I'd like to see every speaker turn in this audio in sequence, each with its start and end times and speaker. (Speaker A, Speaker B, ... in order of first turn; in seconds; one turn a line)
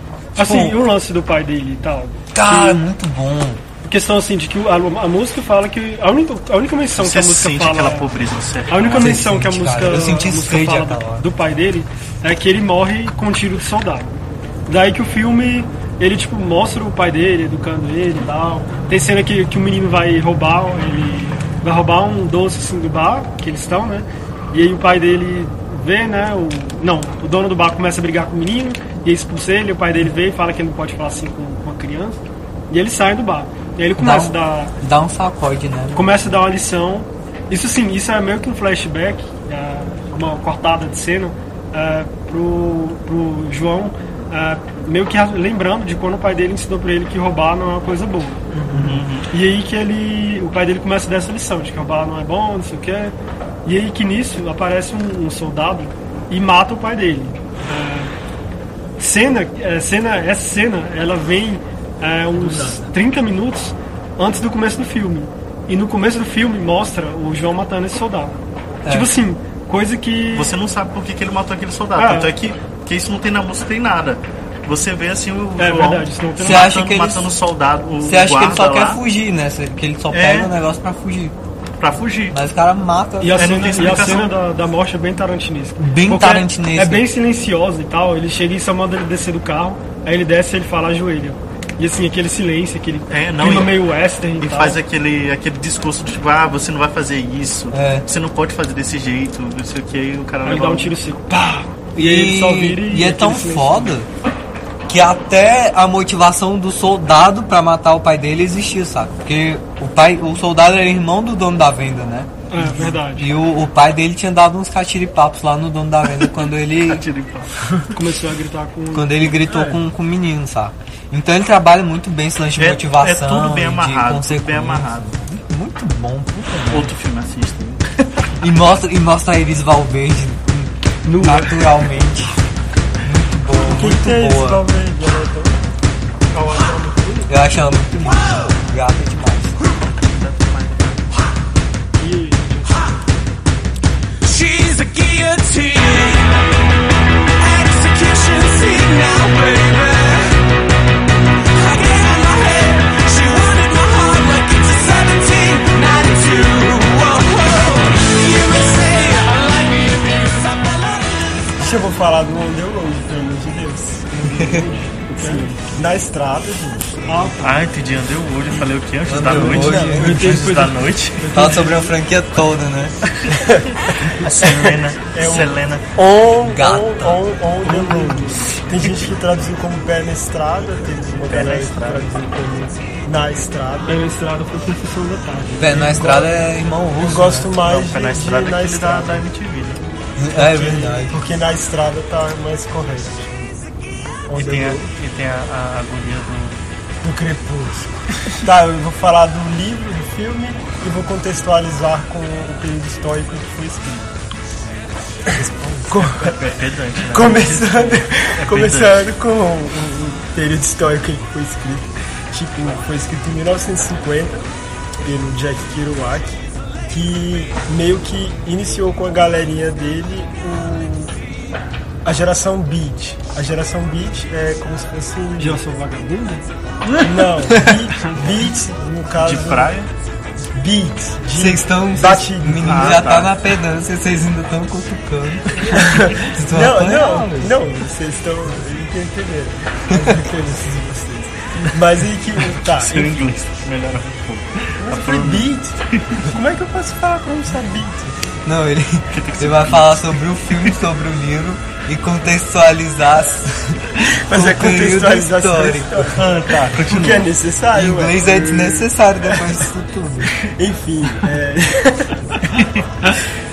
Speaker A: 0.4-0.8
Speaker B: 0.4-2.8
Speaker A: 2.3-3.6
Speaker B: 3.8-8.1
Speaker C: 7.0-9.3
Speaker B: 8.7-34.8
Speaker A: 9.0-11.3
Speaker A: 34.0-36.2
Speaker B: 35.9-48.5
Speaker D: 48.5-49.0
Speaker C: 48.7-49.3
Speaker B: 49.3-58.1
Speaker B: 59.0-70.6
Speaker A: 62.4-62.8
Speaker A: 68.8-69.1
Speaker C: 70.3-79.0
Speaker B: 72.0-72.3
Speaker B: 75.6-76.7
Speaker A: 76.4-77.3
Speaker A: 78.0-81.3
Speaker C: 80.1-80.5
Speaker C: 81.8-82.4
Speaker A: 82.3-83.5
Speaker B: 83.2-94.8
Speaker C: 83.4-84.3
Speaker A: 85.8-87.1
Speaker C: 93.1-93.8
Speaker C: 94.4-100.9
Speaker A: 97.7-98.1
Speaker B: 100.4-104.0
Speaker A: 102.0-104.1
Speaker A: 104.9-117.0
Speaker B: 112.5-113.3
Speaker C: 116.8-117.5
Speaker B: 117.9-119.8
Speaker A: 118.9-126.9
Speaker C: 122.6-125.2
Speaker C: 126.7-127.8
Speaker A: 128.4-132.4
Speaker B: 131.1-131.8
Speaker A: 133.0-134.6
Speaker D: 133.6-135.6
Speaker C: 136.3-137.2
Speaker B: 136.6-137.2
Speaker A: 137.3-139.6
Speaker C: 139.9-141.1
Speaker B: 142.0-143.0
Speaker E: 144.2-146.3
Speaker E: 147.4-150.4
Speaker E: 151.6-161.5
Speaker D: 161.6-164.6
Speaker B: 164.2-165.6
Speaker A: 164.3-164.7
Speaker D: 165.1-167.1
Speaker B: 167.1-167.7
Speaker C: 167.4-171.3
Speaker A: 169.1-170.7
Speaker B: 169.3-171.9
Speaker D: 169.3-170.0
Speaker A: 171.3-173.1
Speaker D: 173.3-184.0
Speaker C: 174.1-175.8
Speaker A: 176.4-177.2
Speaker B: 177.7-178.4
Speaker C: 178.8-179.1
Speaker C: 181.1-182.1
Speaker B: 183.9-186.2
Speaker A: 185.6-187.5
Speaker D: 185.8-186.3
Speaker D: 186.9-189.3
Speaker C: 187.5-189.8
Speaker A: 190.2-191.2
Speaker D: 190.3-193.3
Speaker D: 194.3-194.9
Speaker C: 194.4-196.6
Speaker D: 197.0-204.1
Speaker D: 205.3-206.4
Speaker C: 206.1-209.1
Speaker D: 207.1-214.5
Speaker D: 215.0-221.2
Speaker D: 222.0-225.6
Speaker B: 225.4-226.5
Speaker D: 227.0-229.7
Speaker C: 229.2-229.9
Speaker D: 230.6-233.1
Speaker A: 231.3-237.6
Speaker C: 232.7-233.3
Speaker D: 235.7-243.2
Speaker C: 242.6-246.2
Speaker D: 244.8-248.3
Speaker A: 248.4-256.1
Speaker C: 249.1-250.8
Speaker D: 254.1-259.6
Speaker C: 256.1-257.3
Speaker A: 257.7-260.3
Speaker D: 260.4-262.4